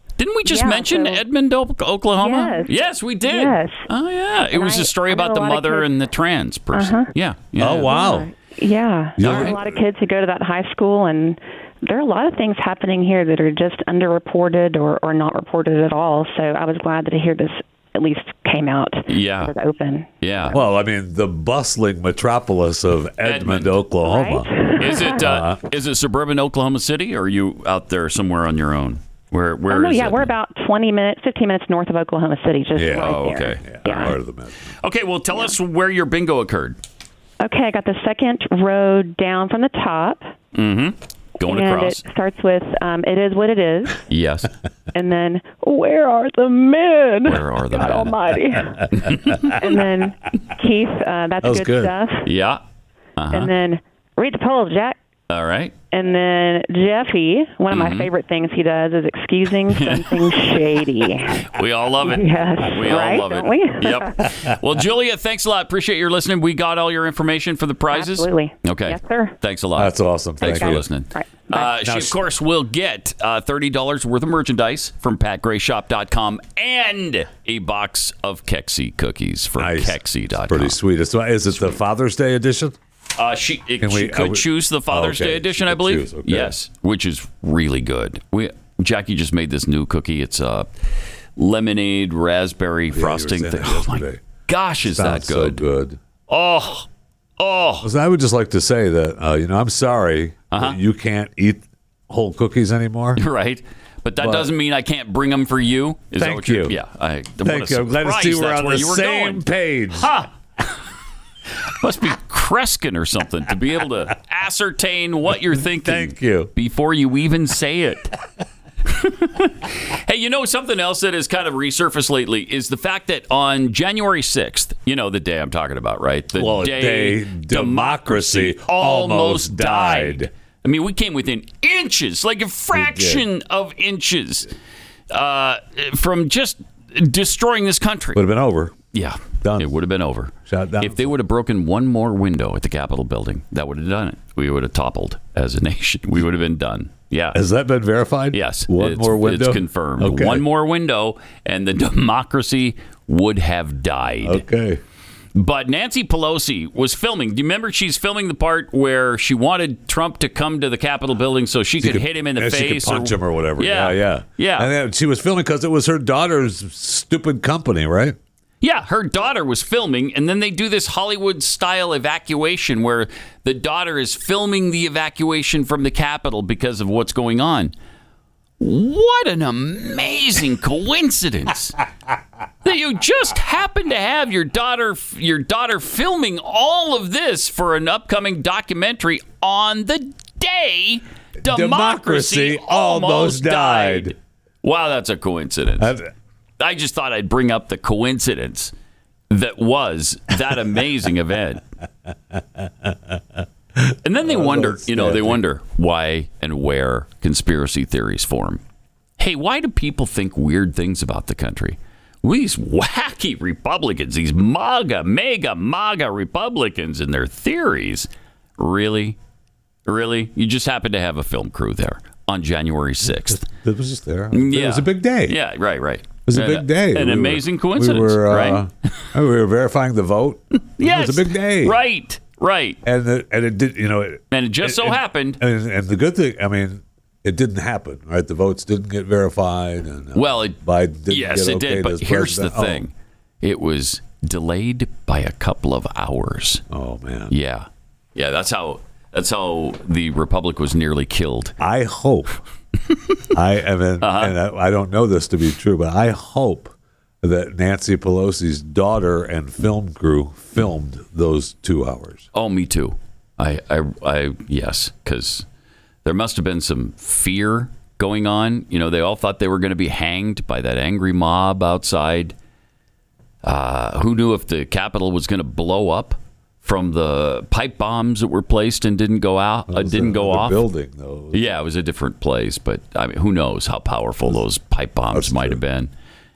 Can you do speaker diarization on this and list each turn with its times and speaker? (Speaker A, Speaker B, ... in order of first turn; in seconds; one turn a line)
Speaker A: 0.2-8.0
Speaker B: 0.5-1.2
Speaker B: 2.2-3.9
Speaker B: 4.4-5.9
Speaker B: 6.7-7.1
Speaker C: 7.6-8.3
Speaker B: 7.8-20.5
Speaker C: 9.2-9.8
Speaker A: 9.2-9.6
Speaker A: 19.1-19.5
Speaker A: 20.2-20.6
Speaker C: 20.5-24.5
Speaker A: 23.2-23.8
Speaker B: 24.0-25.2
Speaker A: 24.8-30.3
Speaker C: 25.1-25.6
Speaker B: 29.7-34.1
Speaker C: 32.7-34.5
Speaker A: 32.9-34.1
Speaker A: 34.8-36.8
Speaker B: 37.4-40.3
Speaker A: 40.5-42.0
Speaker B: 41.4-44.0
Speaker A: 44.1-44.5
Speaker B: 44.9-52.3
Speaker A: 47.2-48.1
Speaker A: 48.9-49.5
Speaker C: 51.4-51.9
Speaker A: 52.2-52.6
Speaker A: 53.2-53.5
Speaker B: 53.3-55.0
Speaker A: 55.3-55.7
Speaker B: 55.9-61.5
Speaker A: 57.7-58.1
Speaker A: 59.7-60.3
Speaker A: 61.3-80.8
Speaker B: 62.0-64.3
Speaker B: 67.9-69.3
Speaker C: 69.8-70.9
Speaker B: 70.4-71.7
Speaker C: 71.8-72.2
Speaker C: 79.6-82.8
Speaker A: 83.2-90.7
Speaker C: 83.8-86.5
Speaker A: 91.3-95.6
Speaker C: 92.9-94.2
Speaker C: 94.8-96.0
Speaker A: 96.3-96.9
Speaker A: 97.4-97.9
Speaker C: 97.8-103.2
Speaker A: 100.5-100.8
Speaker A: 103.2-110.3
Speaker C: 104.2-104.5
Speaker C: 106.2-106.8
Speaker C: 107.4-110.1
Speaker A: 111.8-118.1
Speaker C: 115.5-116.5
Speaker A: 118.9-134.5
Speaker C: 126.3-130.3
Speaker C: 132.7-133.2
Speaker A: 135.1-138.2
Speaker C: 138.1-138.8
Speaker A: 138.9-147.4
Speaker C: 139.4-139.7
Speaker C: 140.4-141.1
Speaker C: 147.3-150.4
Speaker A: 148.3-154.4
Speaker C: 154.2-154.8
Speaker A: 155.3-164.7
Speaker C: 161.8-168.2
Speaker A: 168.6-177.7
Speaker A: 178.6-181.8
Speaker A: 182.6-195.9
Speaker C: 191.4-194.1
Speaker C: 195.8-196.1
Speaker A: 196.6-198.7
Speaker A: 199.3-201.6
Speaker C: 202.6-203.2
Speaker C: 203.8-205.4
Speaker A: 204.0-208.6
Speaker A: 209.2-219.2
Speaker A: 219.8-223.4
Speaker C: 223.0-225.4
Speaker A: 224.3-229.0
Speaker C: 226.2-231.8
Speaker A: 230.8-232.8
Speaker C: 232.8-242.8
Speaker A: 234.3-235.4
Speaker A: 240.1-246.6
Speaker C: 246.7-247.3
Speaker A: 247.3-251.6
Speaker C: 251.6-252.4
Speaker C: 253.3-262.3
Speaker A: 254.0-254.3
Speaker A: 262.3-265.4
Speaker A: 266.0-272.3
Speaker A: 273.4-280.6
Speaker C: 279.7-281.5
Speaker A: 281.3-285.9
Speaker C: 285.1-285.6